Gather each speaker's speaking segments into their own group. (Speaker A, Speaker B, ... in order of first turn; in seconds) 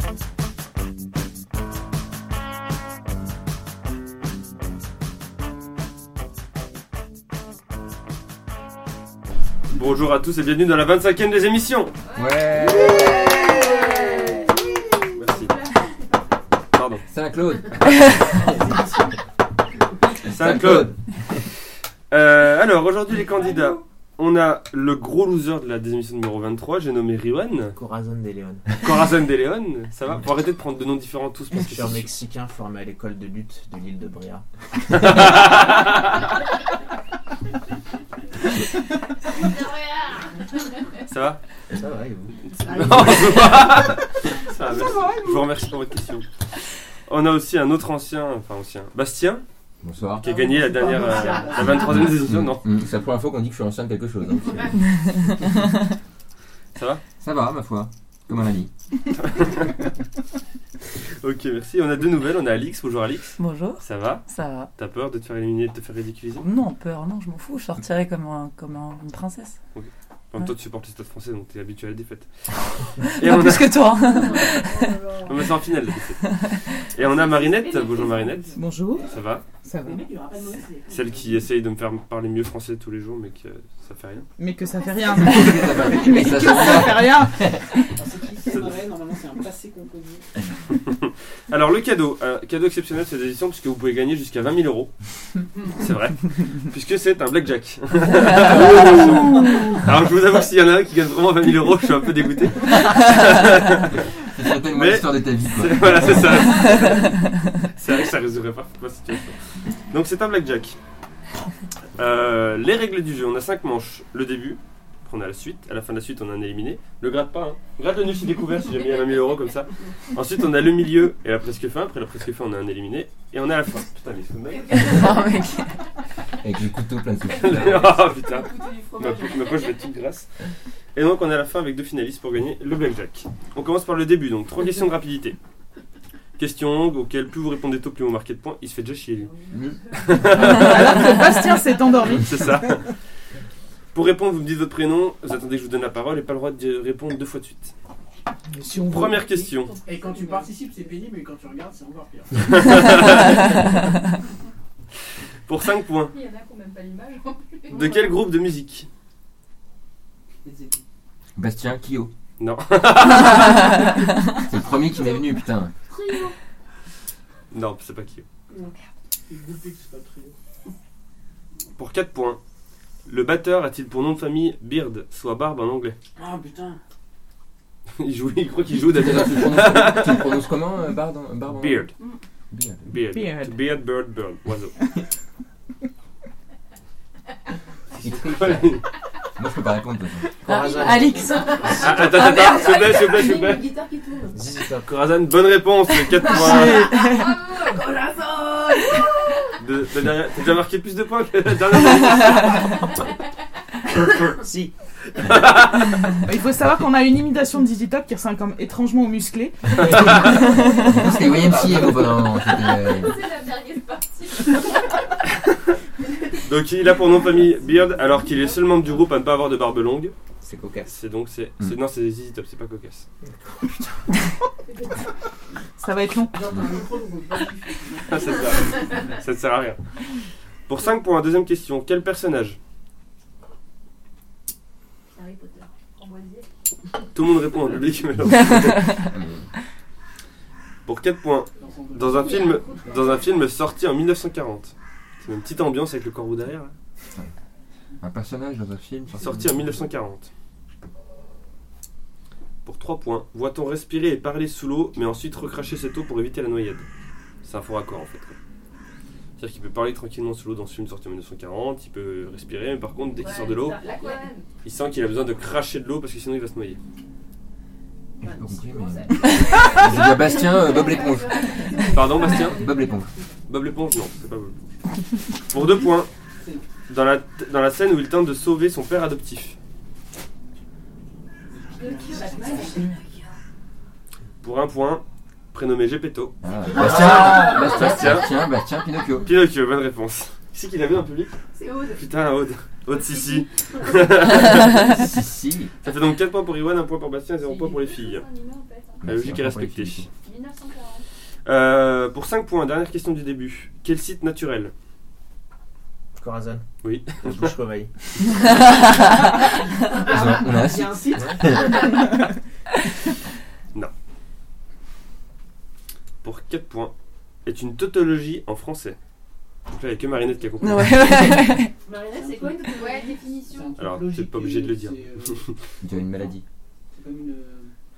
Speaker A: 9.7-11.9, 15.2-15.6, 16.7-17.0, 20.3-20.9, 22.1-27.8, 28.8-32.1, 35.0-36.1, 41.1-41.4, 42.6-46.3, 47.1-49.4, 50.2-52.7, 56.8-57.0, 59.2-59.9, 61.2-66.5, 69.8-74.3, 75.3-79.5, 80.9-84.3, 88.5-88.8, 91.5-104.1, 104.6-110.8, 112.0-125.1, 127.4-130.3, 130.9-135.4, 136.4-139.3, 140.0-141.3, 142.1-142.9, 143.9-147.7, 148.9-149.8, 152.6-153.4, 155.5-156.2, 157.7-158.9, 162.4-163.9, 167.5-168.2, 171.8-172.4, 173.1-176.0, 178.0-180.4, 181.5-181.9, 182.9-184.8, 188.0-188.8, 191.7-193.7, 194.8-196.9, 199.6-202.8, 205.2-205.9, 209.7-210.6, 216.4-220.2, 220.9-223.1, 228.1-229.8, 230.7-232.6, 237.1-239.1, 240.9-246.7, 249.2-250.3, 252.7-256.9, 257.4-258.4, 259.4-263.9, 264.6-266.8, 271.9-272.6, 273.5-274.7, 275.4-276.1, 276.9-279.6, 284.4-288.3, 289.2-291.4, 291.9-295.0, 295.8-298.3, 299.1-300.1, 301.4-304.7, 306.8-307.5, 316.2-316.9, 317.4-319.0, 319.7-320.9, 323.8-325.6
Speaker B: 12.1-15.9, 39.5-40.2, 50.9-51.7, 74.0-75.5, 77.0-79.1, 79.8-81.3, 124.6-125.3, 127.4-129.9, 139.2-140.3, 148.9-150.6, 156.1-158.2, 164.6-165.2, 165.9-166.3, 168.5-168.8, 190.6-194.4, 196.3-199.5, 212.4-214.7, 218.2-219.0, 224.7-225.0, 235.1-236.5, 242.1-243.4, 263.1-264.5, 268.2-273.3, 281.7-283.2, 287.2-287.7, 291.5-292.0, 292.9-294.2, 297.4-299.3, 300.2-301.1, 309.5-312.0, 321.8-323.8
Speaker C: 12.2-13.3, 17.1-18.1, 20.3-20.9, 49.8-50.4, 51.7-54.7, 57.2-58.7, 85.2-87.8, 104.3-106.6, 126.4-127.9, 161.4-162.1, 164.4-165.7, 178.9-181.9, 182.5-182.9, 188.0-188.8, 189.4-190.3, 209.8-213.2, 239.0-239.5, 248.0-249.8, 268.2-273.1, 286.4-289.3, 294.8-295.7, 299.0-300.1, 310.0-311.8, 325.8-326.4
Speaker D: 12.9-14.4, 18.3-19.1, 42.5-43.9, 44.7-45.4, 50.2-52.0, 87.9-90.3, 149.9-152.6, 160.4-160.8, 169.3-170.3, 176.2-176.8, 226.3-228.6, 241.6-243.0, 276.4-276.7, 281.5-282.9, 322.1-325.5, 326.9-327.7
Speaker E: 17.8-18.2, 54.9-55.3, 63.4-64.7, 66.4-69.6, 73.0-75.2, 76.2-76.8, 98.5-99.6, 106.5-107.3, 124.8-125.8, 140.5-141.3, 190.4-192.0, 196.5-197.3, 238.3-239.1, 308.3-309.3, 320.6-321.7
Speaker F: 27.7-28.8, 31.6-34.5, 41.7-43.2, 190.4-191.8, 194.3-194.9, 204.3-205.6, 220.4-220.9, 223.2-223.9, 306.2-308.9, 311.2-311.5
Speaker G: 78.5-79.1, 79.7-80.0, 84.4-87.4, 140.4-142.7, 148.5-149.2, 183.1-183.6, 206.2-210.1, 225.8-226.4